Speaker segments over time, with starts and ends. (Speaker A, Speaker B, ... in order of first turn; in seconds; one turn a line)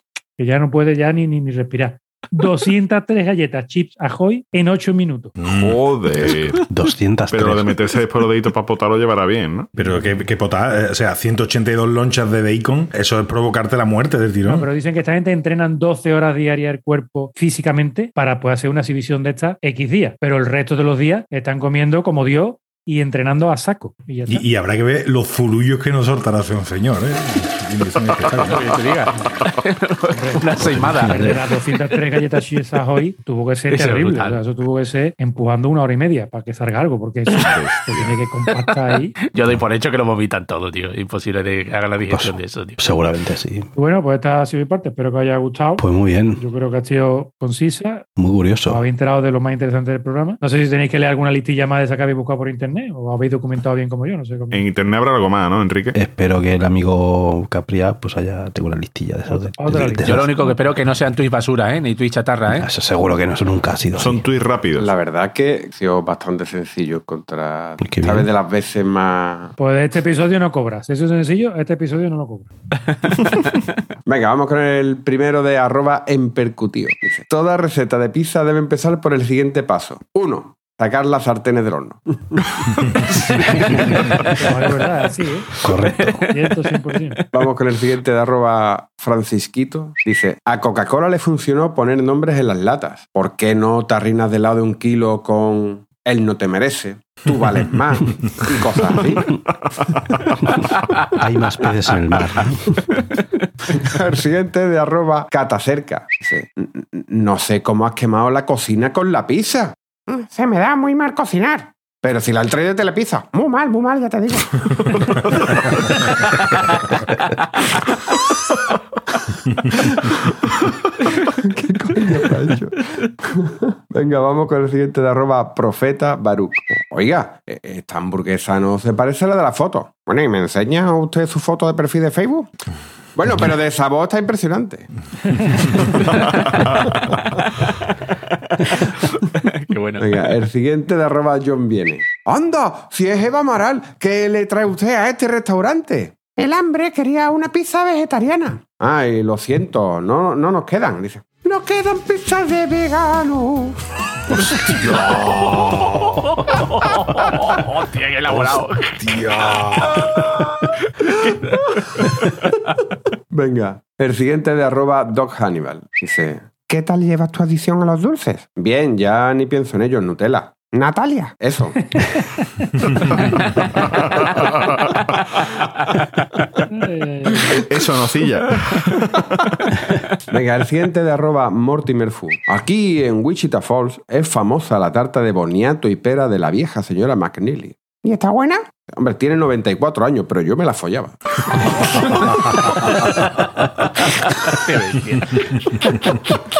Speaker A: 0.4-5.3
Speaker B: 5.4-6.3
Speaker C: 5.4-6.6
Speaker D: 6.7-7.7
Speaker C: 7.3-9.7
Speaker B: 9.7-14.7
Speaker A: 14.4-24.4
Speaker B: 24.2-28.6
Speaker E: 28.4-31.4
Speaker A: 30.1-39.2
Speaker D: 30.6-31.4
Speaker E: 33.7-34.4
Speaker C: 37.3-38.1
Speaker E: 39.2-42.8
Speaker D: 42.1-43.7
Speaker A: 43.8-45.8
Speaker D: 45.8-46.4
Speaker A: 46.4-48.1
Speaker D: 48.2-48.8
Speaker A: 48.7-54.6
Speaker C: 54.5-56.0
Speaker D: 55.9-60.3
Speaker A: 59.3-60.6
Speaker E: 60.0-62.7
Speaker D: 62.5-64.2
Speaker C: 64.0-64.9
Speaker F: 64.8-69.5
Speaker D: 67.8-68.3
Speaker A: 69.6-72.5
Speaker E: 73.1-73.5
Speaker F: 74.0-83.3
Speaker E: 83.7-84.3
Speaker A: 84.3-85.5
Speaker D: 85.6-86.2
Speaker E: 85.6-86.8
Speaker A: 86.3-87.2
Speaker F: 87.3-99.4
Speaker C: 99.9-100.3
Speaker D: 101.1-102.8
Speaker F: 103.7-116.4
Speaker F: 119.7-120.3
Speaker F: 121.2-132.5
Speaker F: 133.1-136.9
Speaker C: 135.8-137.1
Speaker E: 138.6-140.3
Speaker F: 140.0-153.8
Speaker E: 154.3-158.9
Speaker B: 154.4-156.2
Speaker B: 158.3-160.6
Speaker F: 163.3-171.8
Speaker A: 172.0-173.4
Speaker C: 173.8-175.2
Speaker A: 176.7-177.6
Speaker C: 177.4-179.6
Speaker F: 180.3-193.1
Speaker E: 194.5-195.9